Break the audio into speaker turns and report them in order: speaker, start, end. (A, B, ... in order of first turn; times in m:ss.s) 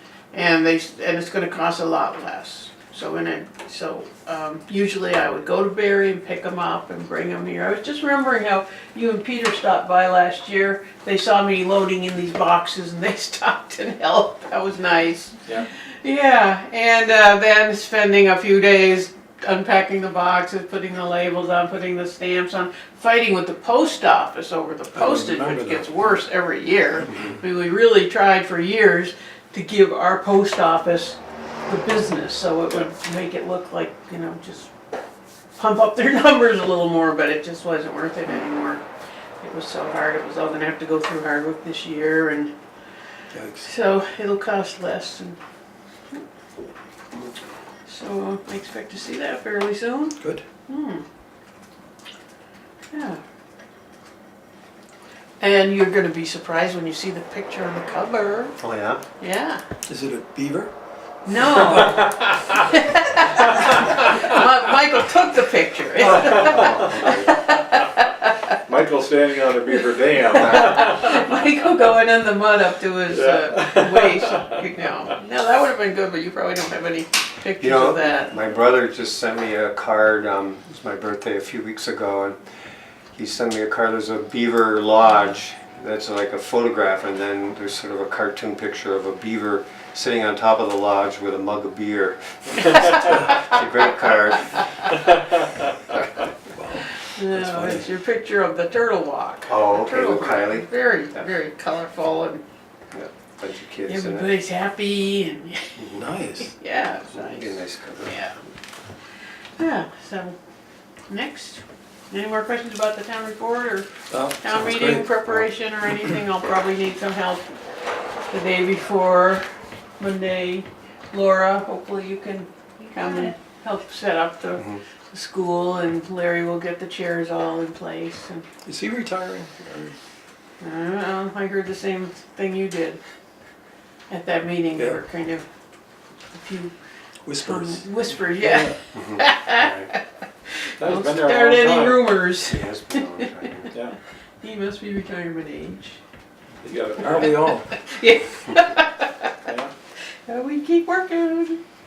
0:00.3-0:34.7 A
0:25.0-0:26.0 B
0:35.6-0:38.8 A
0:39.4-0:42.5 A
0:43.3-0:43.7 B
0:43.6-0:45.4 A
0:47.9-0:51.0 A
0:52.9-0:53.2 A
0:55.4-0:58.6 A
0:58.6-0:59.0 C
0:59.2-0:59.6 A
0:59.9-1:00.7 B
1:01.2-1:08.6 A
1:06.1-1:07.4 C
1:06.1-1:06.7 D
1:08.7-1:11.2 D
1:09.7-1:18.3 A
1:10.4-1:10.8 C
1:13.1-1:14.7 D
1:17.6-1:22.4 C
1:23.1-1:35.0 C
1:36.5-1:37.9 B
1:37.0-1:42.4 A
1:39.5-1:40.7 C
1:42.9-1:44.3 C
1:43.9-1:48.4 A
1:45.8-1:46.0 C
1:46.0-1:46.6 B
1:47.1-1:48.5 C
1:49.6-1:50.4 A
1:51.1-1:57.5 A
1:54.1-1:55.5 B
1:58.3-1:59.4 A
2:00.0-2:08.5 A
2:08.6-2:10.0 B
2:10.6-2:13.0 A
2:14.1-2:15.5 A
2:16.3-2:16.8 A
2:17.2-2:18.7 B
2:17.4-2:23.4 A
2:18.9-2:19.9 C
2:20.8-2:22.1 D
2:22.4-2:23.8 C
2:24.4-2:26.0 A
2:26.6-2:27.5 D
2:27.0-2:27.7 B
2:27.1-2:29.4 A
2:29.4-2:29.7 D
2:30.3-2:31.6 A